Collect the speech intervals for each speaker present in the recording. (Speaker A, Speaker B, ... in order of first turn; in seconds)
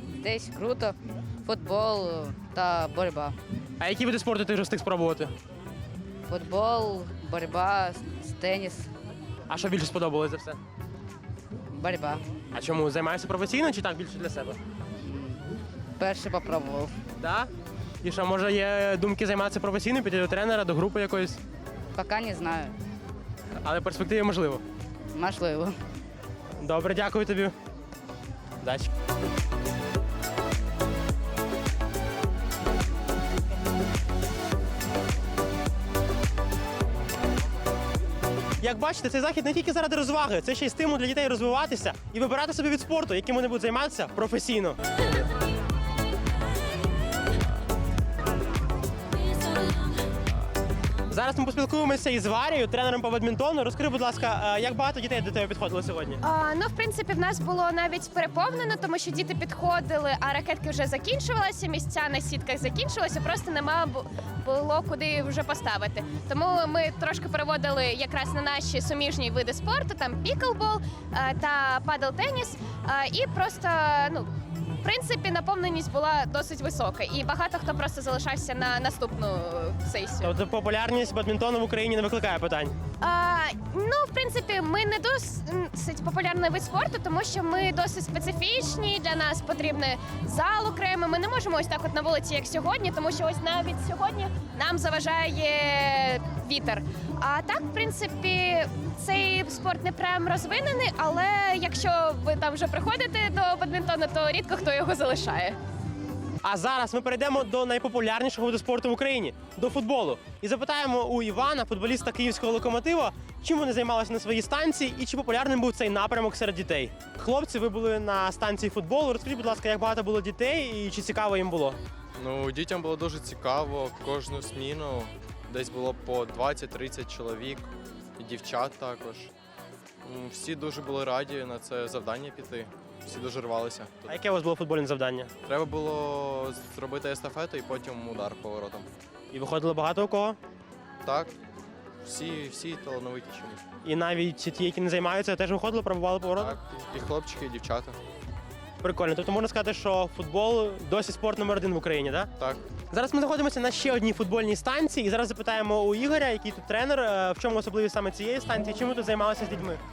Speaker A: 0.2-3.4, 6.3-8.9, 11.7-12.2, 15.0-15.4, 16.0-16.9, 21.9-22.7, 25.1-25.8
Speaker B: 3.8-5.3, 9.5-10.6, 12.5-14.6, 17.2-17.5, 18.0-21.4, 23.6-24.6, 26.6-27.5, 28.6-28.9, 38.6-45.0, 51.1-56.2, 80.2-82.7, 106.4-121.8, 134.1-135.3, 139.3-140.4, 143.8-146.6, 148.8-152.3, 152.9-159.8
Speaker C: 56.2-74.3, 74.8-80.3, 83.0-105.6
Speaker D: 122.2-129.3, 130.0-134.1, 135.4-138.9, 141.0-141.3, 142.0-143.6, 146.4-148.0, 152.4-152.6